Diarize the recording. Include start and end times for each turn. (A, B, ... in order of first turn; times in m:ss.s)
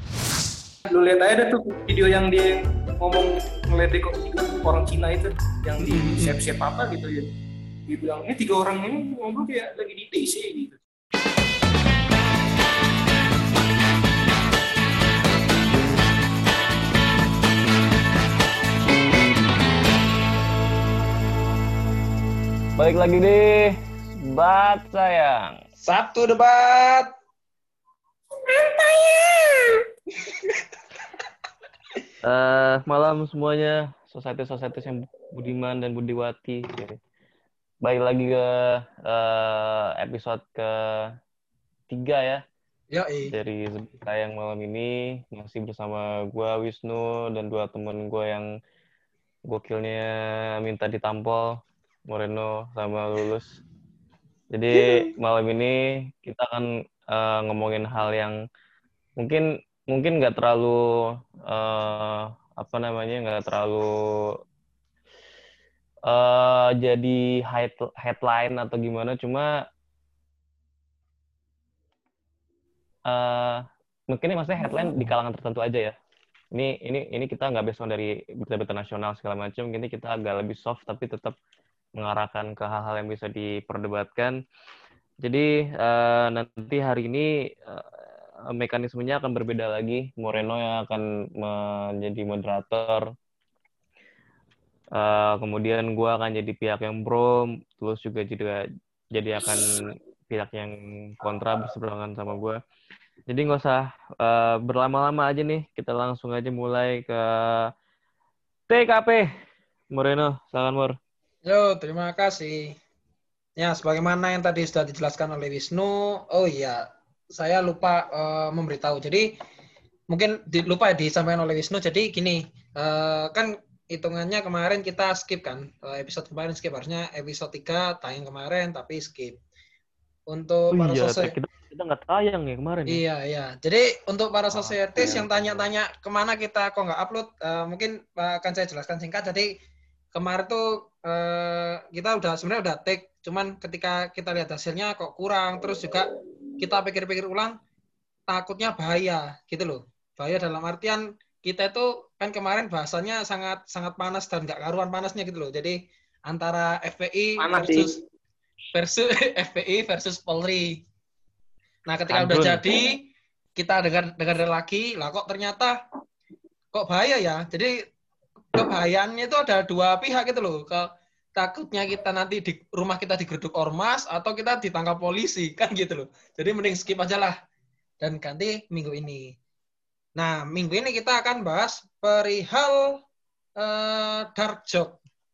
0:00.9-0:07.3 A
0:05.8-0:06.3 B
0:07.9-0:10.8 A
0:22.8-0:25.6 C
0:25.8-0:27.1 B
0:30.2-0:30.6 B
0:32.2-0:37.0 C
0:37.8-0:41.1 C
0:41.9-0:42.4 C
0:42.9-0:43.3 B
0:43.3-0:48.5 C
0:49.5-0:51.6 C
0:52.1-0:53.6 C
0:54.5-0:58.4 C
0:59.2-1:00.8 C
1:01.5-1:04.3 C
1:06.1-1:09.6 C
1:13.1-1:15.9 C
1:16.5-1:21.4 C
1:22.0-1:24.4 C
1:25.2-1:33.0 C
1:35.0-1:42.6 C
1:43.3-1:47.7 C
1:48.7-1:49.3 C
1:49.9-1:51.0 C
1:51.4-1:52.8 B
1:53.6-1:59.3 B
2:00.1-2:09.4 B
2:10.3-2:11.3 B
2:10.7-2:13.0 C
2:12.9-2:19.5 B
2:14.5-2:15.7 C
2:20.1-2:26.1 B
2:26.6-2:27.6 B
2:28.3-2:38.0 B
2:37.4-2:38.0 A
2:38.7-2:40.8 B
2:41.9-2:45.8 B
2:42.1-2:42.6 C
2:46.7-2:47.8 B
2:48.5-2:57.4 B
2:58.0-2:59.3 B
3:00.2-3:03.0 B
3:03.6-3:05.0 B